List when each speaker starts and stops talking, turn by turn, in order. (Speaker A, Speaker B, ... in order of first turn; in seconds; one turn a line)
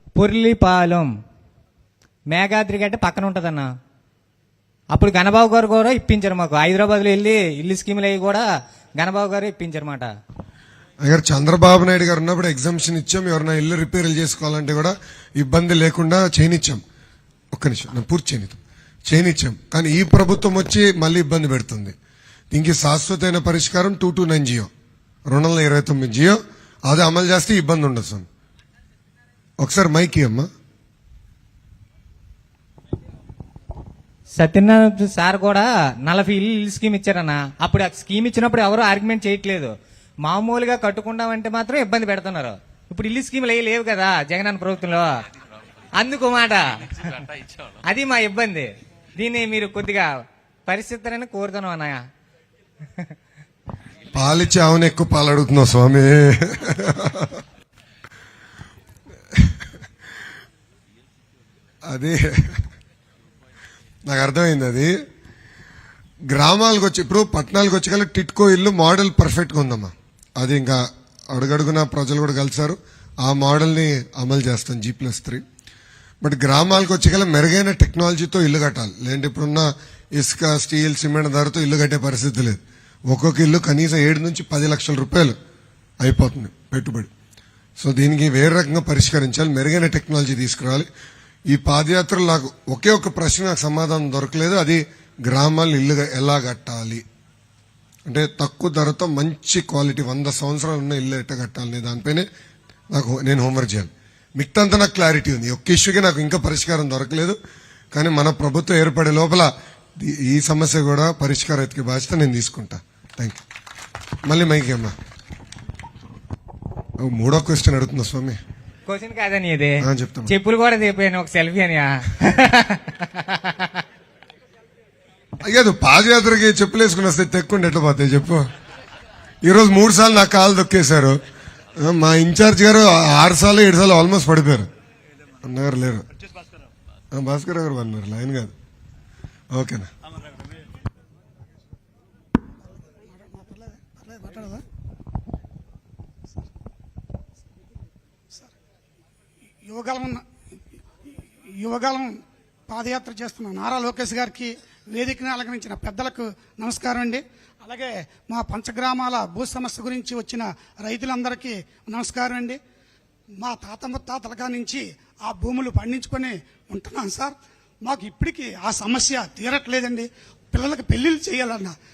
Speaker A: 0.2-1.1
Speaker A: 2.3-3.7
Speaker A: 4.9-8.5
Speaker A: 9.0-10.1
Speaker B: 11.0-16.8
Speaker B: 17.5-22.0
Speaker B: 22.5-24.7
Speaker B: 25.3-28.3
Speaker B: 29.6-30.5
Speaker A: 34.4-39.7
Speaker A: 40.2-45.1
Speaker A: 46.0-47.2
Speaker A: 47.9-50.1
Speaker A: 50.7-52.0
Speaker B: 54.1-57.4
Speaker B: 59.3-59.6
Speaker B: 61.9-62.7
Speaker B: 64.0-64.9
Speaker B: 66.3-75.4
Speaker B: 76.2-85.4
Speaker B: 86.0-87.1
Speaker B: 87.8-90.9
Speaker B: 91.5-97.0
Speaker B: 98.1-102.3
Speaker B: 102.9-107.4
Speaker B: 107.9-113.4
Speaker B: 114.2-115.0
Speaker B: 117.0-118.4
Speaker A: 118.9-123.8
Speaker B: 119.8-120.3
Speaker B: 125.4-128.5
Speaker B: 129.4-131.2
Speaker B: 131.8-134.7
Speaker B: 135.4-136.1
Speaker B: 137.1-138.5
Speaker B: 139.5-139.9
Speaker C: 143.1-144.7
Speaker C: 149.7-150.2
Speaker C: 151.6-162.6
Speaker C: 163.4-171.8